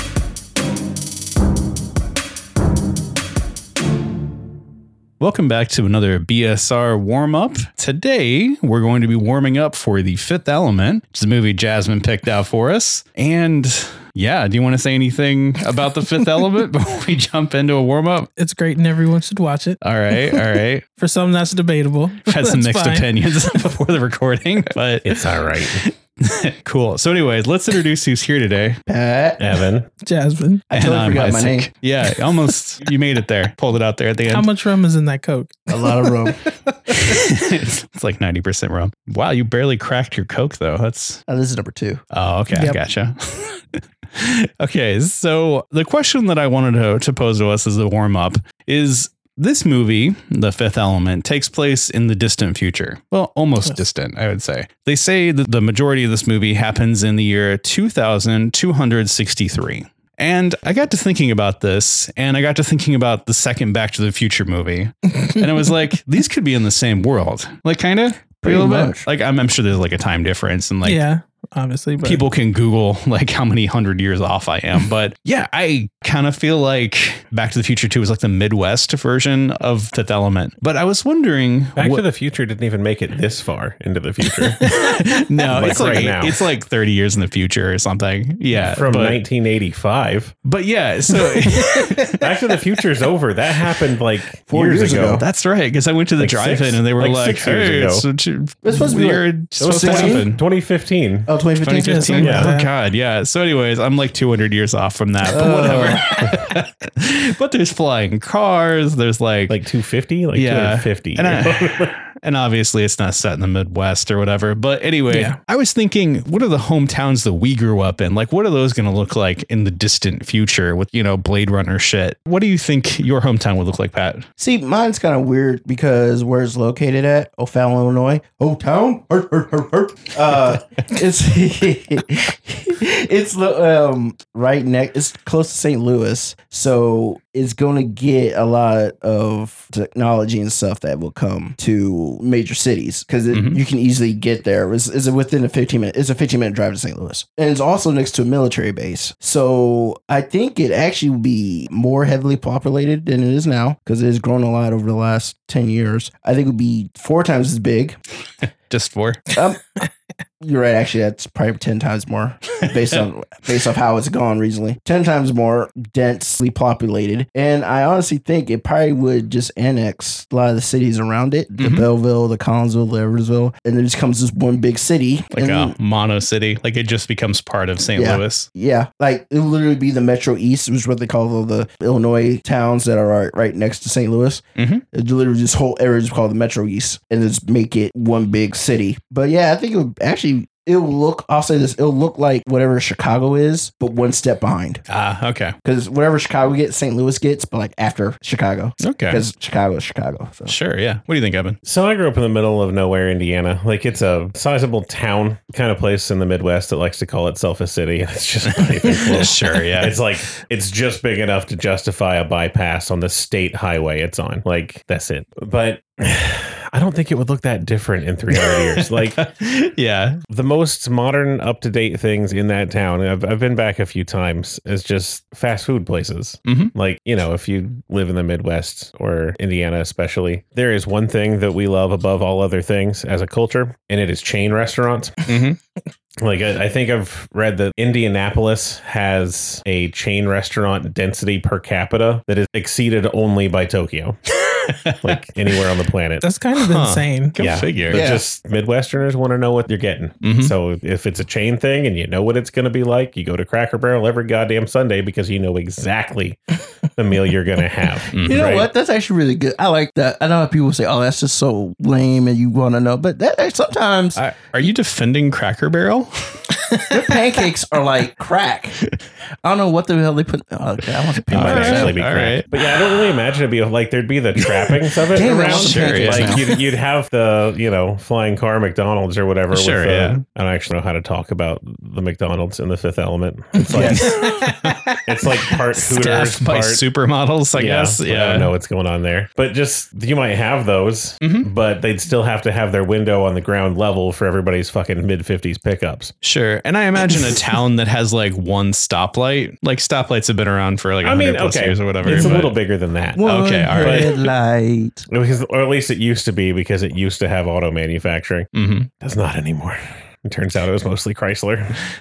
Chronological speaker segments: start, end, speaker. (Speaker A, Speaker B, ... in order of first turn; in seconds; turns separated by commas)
Speaker A: 5.2-18.3, Speaker B: 18.4-19.8, Speaker A: 19.8-20.8, Speaker B: 21.0-23.2, Speaker A: 22.2-28.8, Speaker C: 25.0-25.8, Speaker D: 28.9-29.4, Speaker C: 29.4-29.9, Speaker B: 30.0-30.7, Speaker D: 30.7-31.7, Speaker A: 30.7-34.5, Speaker B: 34.3-35.9, Speaker D: 35.7-36.5, Speaker A: 36.9-41.2, Speaker D: 41.3-42.0, Speaker A: 42.1-71.0, Speaker B: 42.5-42.8, Speaker D: 68.4-69.0, Speaker B: 70.8-72.2, Speaker A: 72.0-82.0, Speaker C: 81.8-84.6, Speaker A: 84.6-89.2, Speaker C: 85.5-86.4, Speaker C: 88.5-90.3, Speaker A: 90.5-92.2, Speaker B: 91.3-92.2, Speaker C: 92.2-95.2, Speaker D: 94.5-95.2, Speaker A: 95.1-100.4, Speaker C: 96.2-98.1, Speaker D: 98.6-100.3, Speaker C: 99.6-101.3, Speaker D: 101.3-102.1, Speaker A: 101.6-109.6, Speaker B: 101.8-102.7, Speaker C: 102.2-102.5, Speaker D: 105.3-106.1, Speaker C: 109.5-111.9, Speaker A: 110.3-124.2, Speaker D: 124.4-158.0, Speaker A: 143.3-143.6, Speaker A: 158.7-159.3, Speaker D: 159.3-159.7, Speaker D: 160.4-175.8, Speaker A: 171.6-171.9, Speaker A: 175.3-178.5, Speaker D: 177.9-194.8, Speaker A: 184.6-184.8, Speaker A: 194.9-195.5, Speaker D: 195.6-200.6, Speaker A: 198.8-199.2, Speaker A: 200.4-201.6, Speaker C: 201.6-219.2, Speaker A: 208.5-210.0, Speaker A: 218.3-220.2, Speaker C: 220.3-235.3, Speaker A: 226.4-226.7, Speaker A: 235.3-235.6, Speaker C: 236.2-244.2, Speaker A: 244.5-245.2, Speaker C: 245.0-246.2, Speaker B: 246.2-247.4, Speaker A: 246.6-248.0, Speaker C: 247.4-256.4, Speaker D: 247.9-248.2, Speaker A: 250.2-250.5, Speaker C: 256.9-258.7, Speaker A: 258.1-258.4, Speaker D: 258.2-264.2, Speaker A: 264.1-266.5, Speaker B: 266.7-267.0, Speaker D: 266.9-268.8, Speaker D: 269.4-272.0, Speaker A: 271.3-273.1, Speaker C: 271.3-284.2, Speaker D: 275.1-276.6, Speaker A: 275.4-276.4, Speaker A: 279.5-280.2, Speaker D: 283.7-284.1, Speaker A: 283.8-284.9, Speaker B: 284.0-285.0, Speaker C: 285.1-286.9, Speaker A: 285.9-288.5, Speaker C: 287.5-296.1, Speaker A: 291.2-291.5, Speaker A: 296.2-302.6, Speaker C: 301.0-304.1, Speaker D: 302.1-302.4, Speaker D: 303.1-305.1, Speaker A: 303.2-304.3, Speaker C: 305.1-308.5, Speaker A: 308.5-308.9, Speaker C: 309.0-311.8